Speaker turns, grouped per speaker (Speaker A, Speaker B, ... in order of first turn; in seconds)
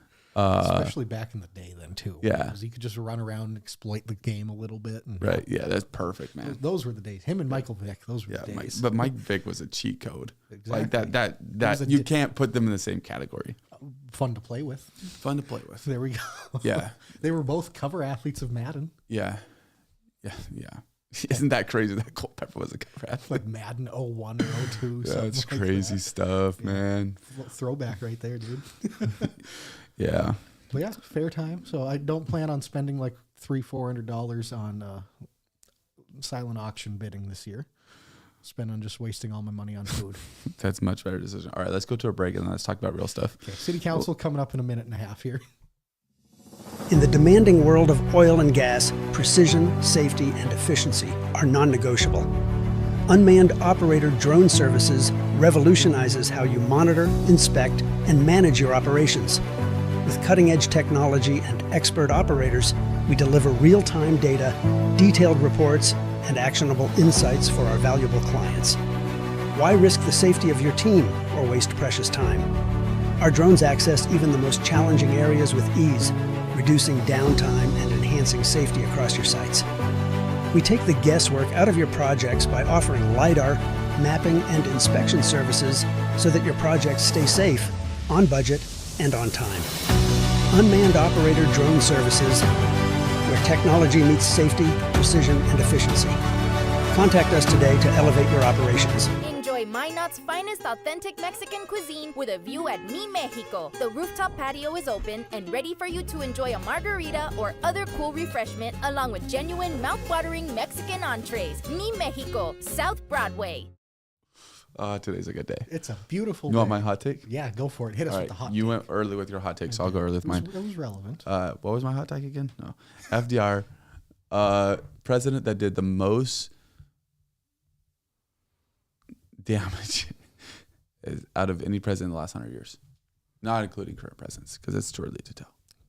Speaker A: 0.3-0.9, 2.2-2.5, 5.2-6.6, 8.3-13.6, 15.1-15.9, 16.6-17.0, 19.1-19.4, 20.2-23.4, 25.0-27.2, 30.0-30.4, 40.5-43.4, 114.8-115.7, 116.5-117.3, 118.1-120.5, 121.2-123.7, 124.3-126.5, 129.4-130.2, 131.0-132.8, 133.4-135.5
Speaker B: 0.6-5.5, 6.4-9.0, 10.5-12.1, 13.8-15.1, 15.8-18.9, 23.3-26.1, 26.6-29.4, 30.7-35.1, 36.2-37.7, 38.4-40.2, 43.4-45.4, 115.7-118.8, 119.7-121.2
Speaker C: 46.9-52.3, 53.1-59.4, 60.0-68.8, 69.5-72.5, 73.2-79.7, 80.5-89.7, 90.5-92.5, 93.3-96.2, 96.9-99.1
Speaker D: 99.2-113.7